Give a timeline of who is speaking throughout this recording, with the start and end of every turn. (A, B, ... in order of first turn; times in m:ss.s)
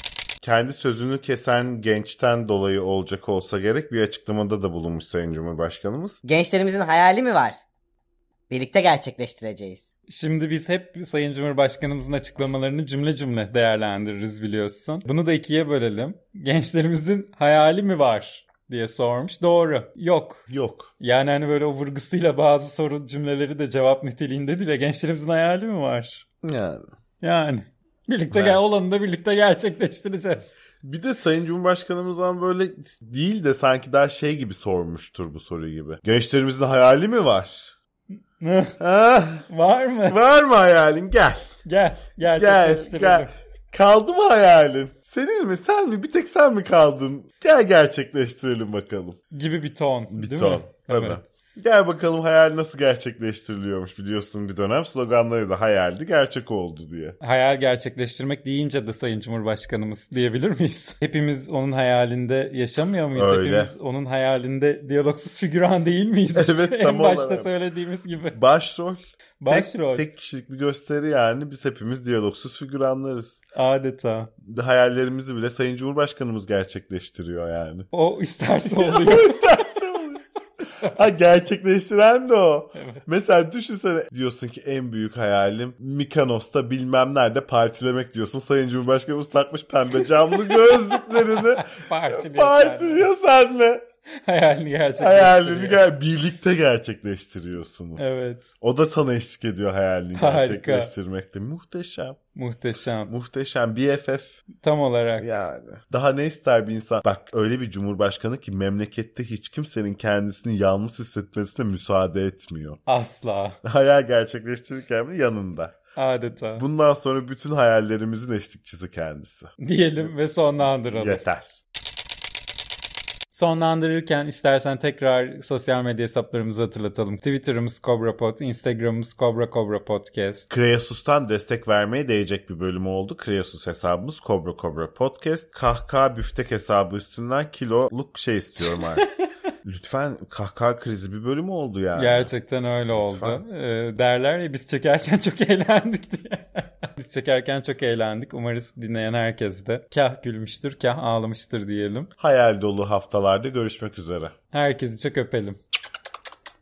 0:00.4-0:06.2 A
0:06.2-0:07.6 B
0:08.5-0:09.9 B
0:10.1-0:20.5 C
0:20.5-0:20.9 A
0:21.0-0:26.2 C
0:26.4-0:26.9 A
0:27.2-0:30.5 C
0:28.3-0:28.6 A
0:30.8-0:37.7 A
0:38.4-0:38.8 C
0:38.8-0:39.5 A
0:39.5-0:40.2 C
0:40.1-0:41.6 A
0:41.6-0:43.3 C
0:42.3-0:49.2 A
0:49.3-0:51.2 C
0:50.1-0:57.2 A
0:57.2-1:08.4 C
1:03.1-1:03.7 A
1:06.3-1:07.5 A
1:08.3-1:13.4 A
1:09.4-1:10.0 C
1:13.5-1:14.3 C
1:14.4-1:17.9 A
1:17.9-1:19.7 C
1:18.6-1:20.2 A
1:20.6-1:21.1 C
1:20.9-1:33.8 A
1:22.8-1:23.0 C
1:30.5-1:33.1 C
1:34.2-1:35.8 C
1:35.0-1:42.2 A
1:38.0-1:38.5 C
1:40.1-1:40.9 C
1:42.3-1:43.1 C
1:43.1-1:44.4 A
1:44.6-1:45.2 C
1:45.2-1:52.8 A
1:52.9-1:53.6 C
1:53.6-1:55.8 A
1:56.0-1:56.6 C
1:56.6-2:00.1 A
1:59.6-2:01.2 C
2:00.9-2:01.5 A
2:03.3-2:10.5 C
2:10.5-2:19.0 A
2:18.7-2:19.1 C
2:19.6-2:22.3 A
2:21.9-2:32.1 C
2:22.9-2:23.4 A
2:32.2-2:34.3 A
2:34.5-2:35.6 C